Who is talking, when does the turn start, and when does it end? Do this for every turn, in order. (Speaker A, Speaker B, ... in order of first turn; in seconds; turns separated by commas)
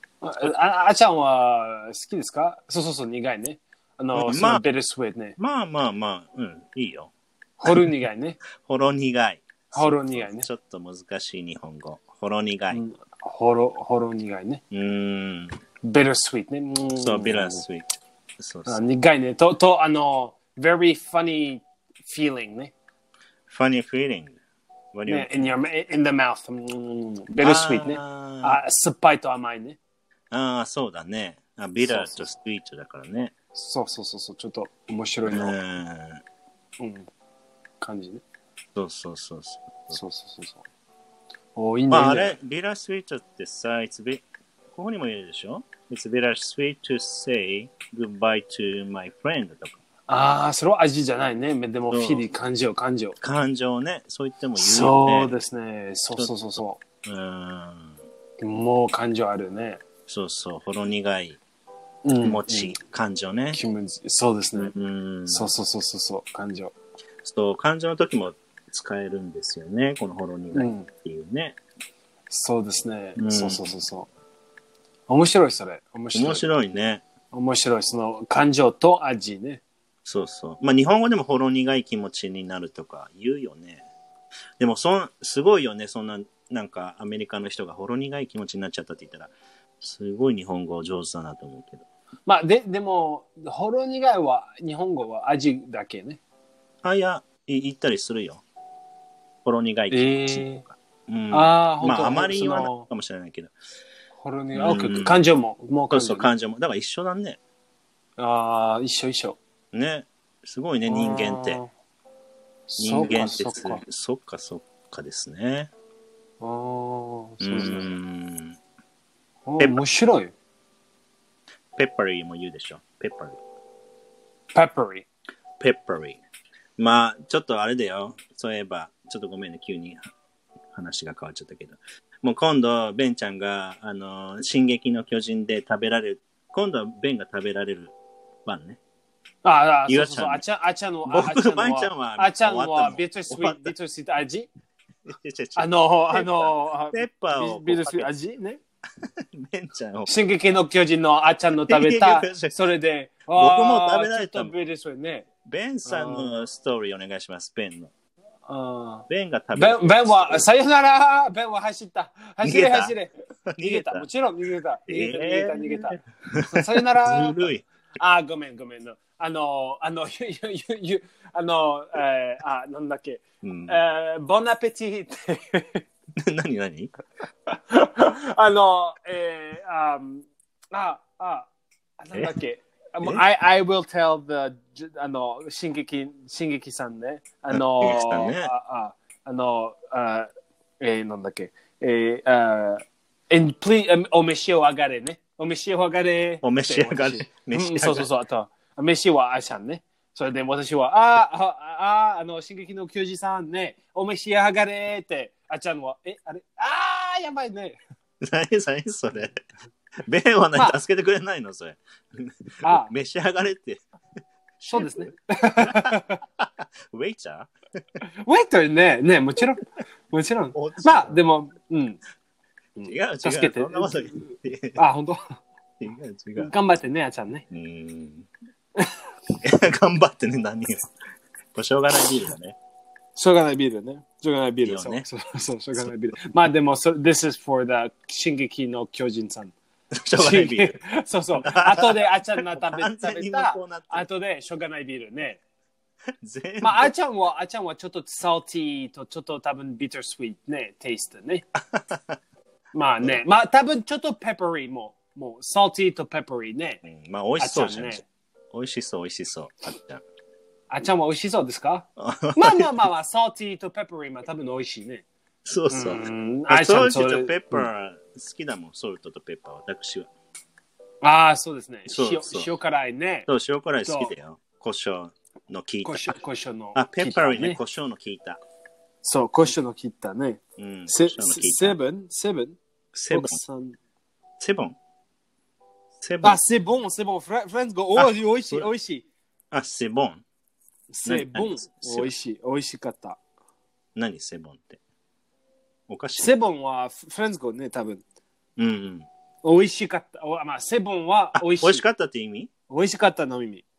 Speaker A: 0.2-5.4, Speaker B: 4.2-4.6, Speaker B: 5.4-7.1, Speaker A: 7.6-8.4, Speaker B: 7.6-7.9, Speaker B: 8.5-12.8, Speaker A: 9.7-10.5, Speaker A: 12.7-14.6, Speaker B: 14.7-15.6, Speaker A: 15.8-17.6, Speaker B: 17.0-18.8, Speaker A: 18.7-22.7, Speaker B: 23.5-24.4, Speaker B: 24.9-25.5, Speaker A: 25.1-29.8, Speaker B: 27.4-28.6, Speaker B: 30.3-33.3, Speaker A: 31.8-32.3, Speaker A: 33.5-35.6, Speaker B: 35.2-36.2, Speaker A: 36.8-37.1, Speaker A: 37.8-38.2, Speaker B: 38.7-40.0, Speaker A: 39.9-40.6, Speaker A: 41.5-42.4, Speaker B: 41.9-49.8, Speaker A: 50.1-53.1, Speaker B: 51.9-52.2, Speaker B: 53.2-55.3, Speaker A: 54.6-56.8, Speaker B: 56.1-58.0, Speaker A: 58.4-59.8, Speaker B: 60.1-61.4, Speaker A: 62.0-62.8, Speaker B: 62.2-63.6, Speaker A: 63.5-64.7, Speaker B: 64.6-65.5, Speaker A: 65.3-66.7, Speaker B: 67.2-71.6, Speaker A: 70.5-70.9, Speaker A: 72.3-74.1, Speaker B: 73.2-73.6, Speaker A: 75.1-76.5, Speaker B: 76.1-77.0, Speaker A: 77.3-79.6, Speaker B: 80.0-83.8, Speaker B: 84.6-91.8, Speaker A: 92.2-96.2, Speaker B: 96.8-98.4, Speaker B: 99.4-103.5, Speaker A: 99.9-100.6, Speaker A: 101.3-102.8, Speaker A: 104.2-106.3, Speaker B: 104.5-105.2, Speaker B: 105.9-107.4, Speaker A: 108.2-109.4, Speaker B: 109.7-111.6, Speaker A: 110.9-111.7, Speaker A: 112.7-113.8, Speaker B: 112.8-115.7, Speaker A: 116.4-117.9, Speaker B: 117.4-118.6, Speaker A: 119.5-120.3, Speaker B: 121.8-123.4, Speaker A: 124.5-125.0, Speaker B: 125.6-126.2, Speaker B: 126.8-130.0, Speaker B: 130.7-137.9, Speaker B: 138.4-138.8, Speaker A: 139.4-144.5, Speaker B: 139.9-140.4, Speaker B: 141.1-143.7, Speaker B: 145.0-148.1, Speaker A: 145.6-148.6, Speaker B: 149.0-150.2, Speaker A: 150.1-155.2, Speaker B: 151.6-152.6, Speaker B: 153.3-154.5, Speaker B: 155.4-157.9, Speaker A: 155.8-156.4, Speaker A: 158.5-167.4, Speaker B: 159.1-160.4, Speaker B: 162.4-162.9, Speaker B: 163.5-164.1, Speaker B: 164.9-167.6, Speaker A: 168.0-175.8, Speaker B: 173.4-173.8, Speaker B: 176.2-176.9, Speaker A: 177.5-181.5, Speaker A: 182.0-190.3, Speaker B: 187.5-188.5, Speaker A: 190.8-207.8, Speaker B: 196.4-198.1, Speaker B: 208.2-209.4, Speaker B: 210.0-213.8, Speaker A: 212.6-212.9, Speaker A: 214.6-216.2, Speaker B: 214.7-218.0, Speaker A: 218.0-222.0, Speaker B: 220.5-221.2, Speaker A: 222.8-225.4, Speaker B: 222.8-224.8, Speaker B: 225.8-226.5, Speaker A: 226.4-227.4, Speaker B: 227.5-228.3, Speaker A: 228.8-229.1, Speaker B: 229.4-230.9, Speaker B: 231.5-232.6, Speaker A: 233.2-239.5, Speaker B: 234.6-235.1, Speaker B: 239.9-240.8, Speaker A: 240.1-245.4, Speaker B: 241.4-244.1, Speaker B: 246.2-246.9, Speaker A: 246.6-251.4, Speaker B: 251.7-252.2, Speaker A: 252.7-256.8, Speaker B: 256.8-258.0, Speaker A: 257.4-258.0, Speaker B: 258.5-260.0, Speaker A: 260.7-265.0, Speaker B: 262.0-262.7, Speaker B: 265.4-270.1, Speaker A: 265.7-267.7, Speaker A: 271.0-273.3, Speaker B: 271.9-272.5, Speaker B: 273.3-276.2, Speaker A: 273.8-274.1, Speaker A: 275.8-277.6, Speaker B: 276.7-278.4, Speaker A: 279.0-283.8, Speaker B: 280.6-281.8, Speaker B: 283.0-283.4, Speaker B: 284.4-284.8, Speaker B: 286.0-286.4, Speaker A: 286.2-289.0, Speaker B: 287.9-288.7, Speaker B: 289.5-290.2, Speaker A: 290.9-293.2, Speaker B: 291.0-292.1, Speaker B: 293.9-294.8, Speaker B: 295.9-296.3, Speaker A: 296.2-298.0, Speaker B: 298.6-299.1, Speaker A: 299.4-301.8, Speaker B: 301.4-302.5, Speaker A: 302.7-303.6